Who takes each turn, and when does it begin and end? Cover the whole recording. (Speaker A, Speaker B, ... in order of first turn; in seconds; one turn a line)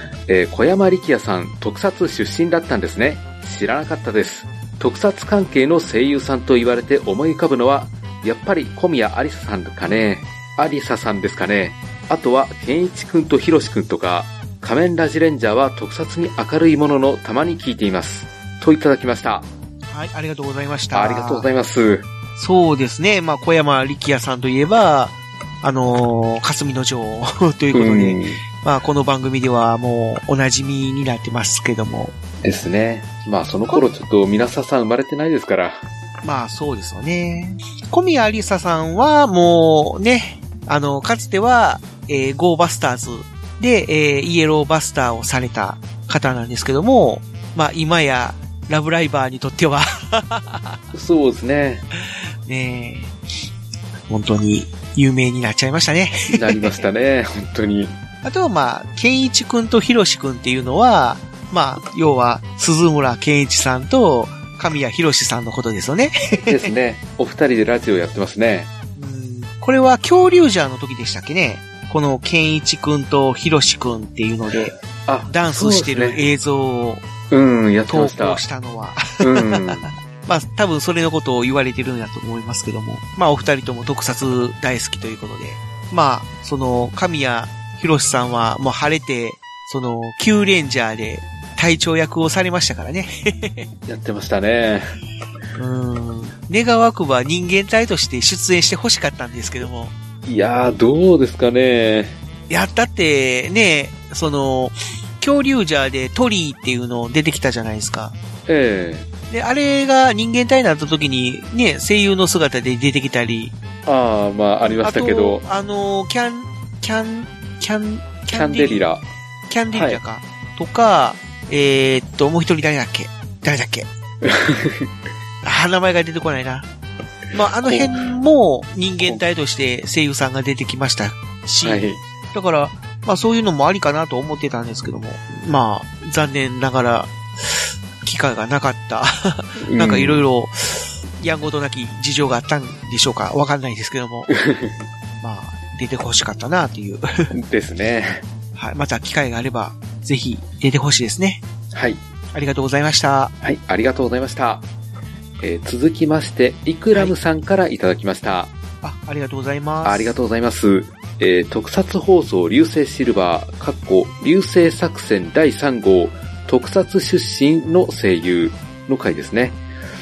Speaker A: 0.3-19.5
Speaker B: 19.9-21.5
Speaker A: 20.9-22.1
Speaker B: 22.4-32.1
Speaker A: 27.7-28.4
Speaker A: 32.4-35.8
Speaker B: 36.2-50.8
Speaker A: 50.9-51.9
Speaker B: 52.5-53.1
Speaker B: 54.1-56.8
Speaker A: 56.3-58.0
Speaker B: 58.2-66.7
Speaker A: 66.5-68.7
Speaker B: 69.0-74.8
Speaker A: 75.1-76.2
Speaker B: 75.3-77.1
Speaker A: 77.3-78.4
Speaker B: 77.9-93.7
Speaker A: 79.2-79.9
Speaker A: 93.9-94.9
Speaker B: 95.6-99.9
Speaker A: 100.2-102.2
Speaker B: 102.5-108.2
Speaker A: 108.5-109.1
Speaker B: 109.3-113.5
Speaker A: 113.8-115.5
Speaker B: 114.7-118.8
Speaker A: 118.3-119.0
Speaker B: 119.5-123.9
Speaker A: 119.7-120.0
Speaker A: 124.2-124.9
Speaker B: 125.4-126.7
Speaker B: 127.3-144.3
Speaker A: 127.6-127.9
Speaker A: 131.6-132.0
Speaker A: 139.6-140.2
Speaker A: 144.3-144.8
Speaker B: 145.2-147.3
Speaker A: 147.3-148.2
Speaker B: 148.6-151.4
Speaker A: 151.7-152.0
Speaker B: 152.3-153.3
Speaker A: 153.4-154.7
Speaker A: 155.4-158.5
Speaker B: 158.8-160.2
Speaker A: 159.8-169.6